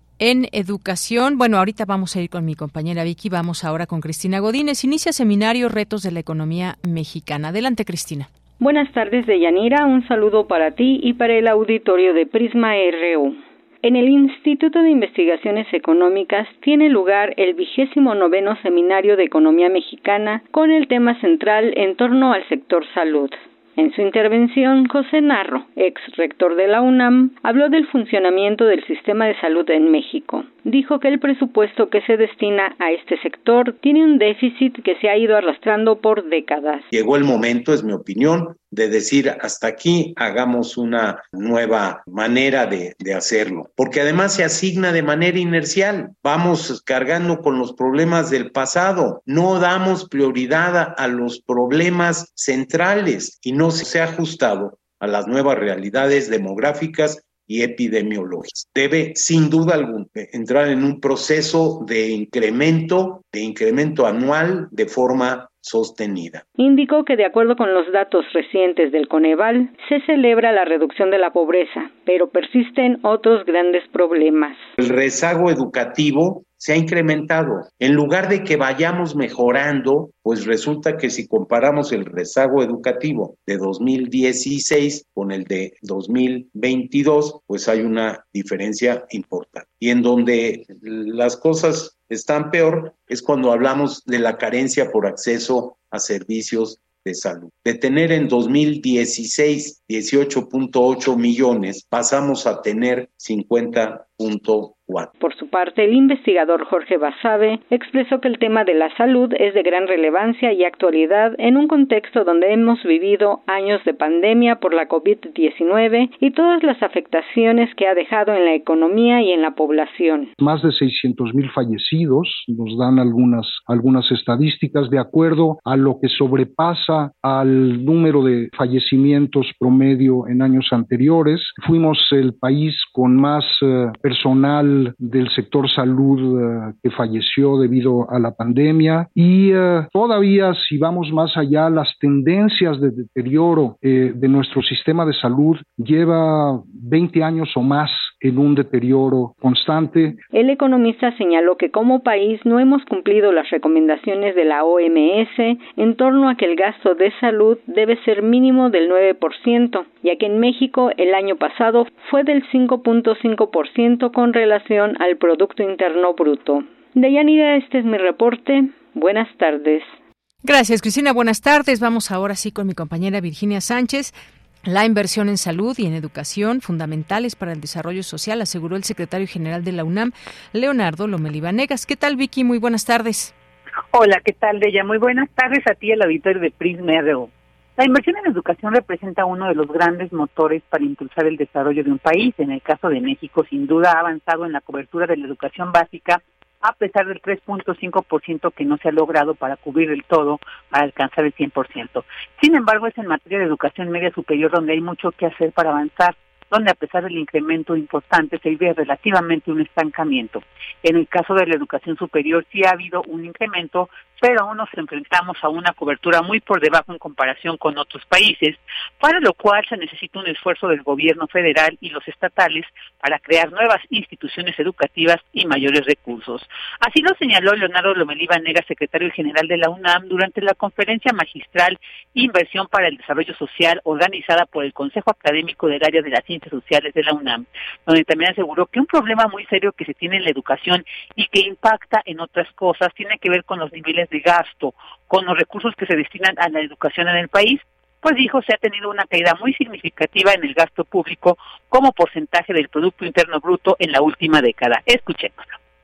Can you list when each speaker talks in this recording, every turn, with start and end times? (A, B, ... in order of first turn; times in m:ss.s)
0:00.2-0:08.3 A
0:08.6-0:36.8 B
0:36.9-1:06.4 C
1:06.6-1:14.7 B
1:14.8-1:45.1 C
1:45.2-2:00.3 B
2:00.4-2:30.2 D
2:30.3-2:49.9 B
2:50.4-2:54.1 A
2:54.6-3:03.3 A
3:03.9-4:15.5 E